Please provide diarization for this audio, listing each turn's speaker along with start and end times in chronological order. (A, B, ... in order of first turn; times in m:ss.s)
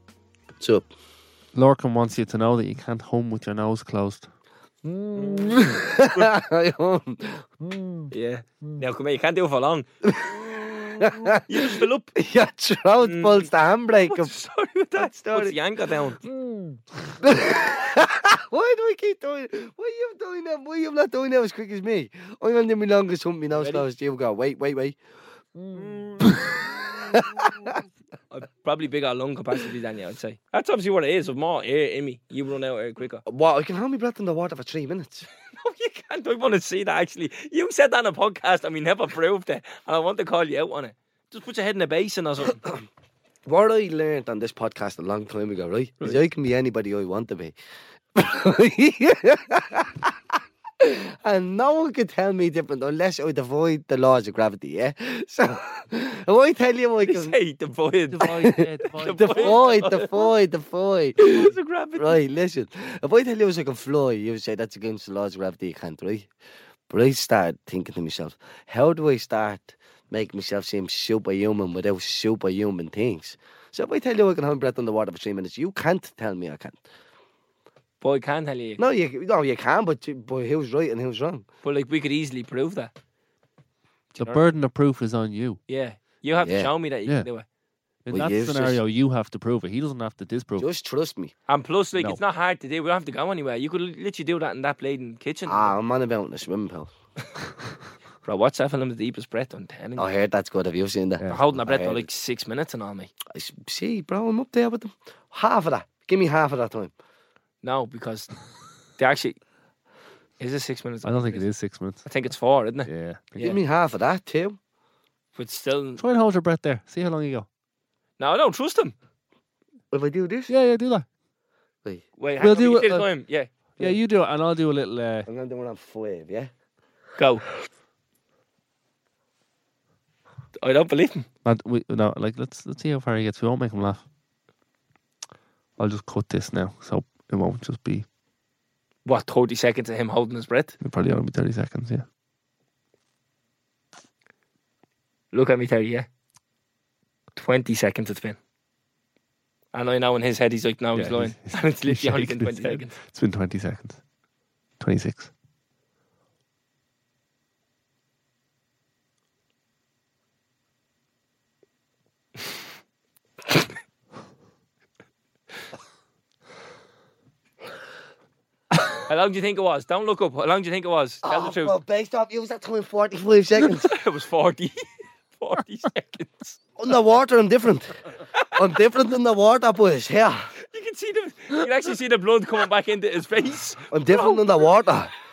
0:00.6-0:00.9 A
0:01.5-0:04.3 B
0:04.8-0:08.1 A
0:08.1-0:09.8 C
0:10.0-0:14.3 A
0:11.5-0:12.1 C
0:13.0-0:13.5 C
0:14.0-0:16.2 C
0:15.0-0:15.6 A
0:16.4-0:25.0 A
0:23.6-0:23.8 C
0:25.7-0:26.1 C
0:25.7-0:27.8 A
0:28.3-0:33.2 C
0:33.2-0:35.3 A
0:35.5-0:42.6 C
0:43.4-0:47.5 A
0:48.1-0:57.3 A
0:57.0-1:00.3 C
0:58.1-0:59.7 B
0:59.0-1:06.3 A
1:01.2-1:02.2 C
1:06.9-1:16.8 A
1:18.0-1:18.8 C
1:18.8-1:21.4 A
1:21.6-1:22.9 C
1:24.2-1:24.4 C
1:24.2-1:25.6 B
1:25.7-1:27.4 C
1:26.4-1:26.7 A
1:28.0-1:30.7 B
1:28.1-1:28.8 A
1:30.6-1:31.3 A
1:31.5-1:35.7 C
1:35.4-1:36.9 A
1:38.2-1:40.1 C
1:40.0-1:42.1 A
1:41.3-1:43.1 C
1:43.3-1:46.9 A
1:47.6-1:48.3 C
1:49.0-1:49.4 C
1:50.4-1:51.5 C
1:51.0-1:52.0 B
1:52.0-1:53.6 C
1:52.8-1:53.4 B
1:53.4-1:54.6 A
1:55.4-1:56.0 C
1:56.0-1:57.5 B
1:58.2-1:58.9 C
1:59.9-2:00.5 A
2:00.5-2:01.0 B
2:02.2-2:03.5 C
2:02.4-2:03.0 B
2:03.8-2:05.3 B
2:05.3-2:06.5 A
2:07.2-2:07.4 C
2:10.6-2:11.3 C
2:11.4-2:14.0 B
2:15.8-2:18.0 B
2:19.0-2:20.8 C
2:20.8-2:22.0 B
2:25.3-2:26.1 C
2:27.4-2:28.4 C
2:29.7-2:33.0 C
2:30.9-2:34.0 B
2:34.8-2:35.3 B
2:49.0-2:51.8 C
2:51.2-2:53.9 A
2:53.6-2:56.6 C
2:56.8-3:00.5 A
3:00.6-3:04.5 C
3:03.9-3:05.1 A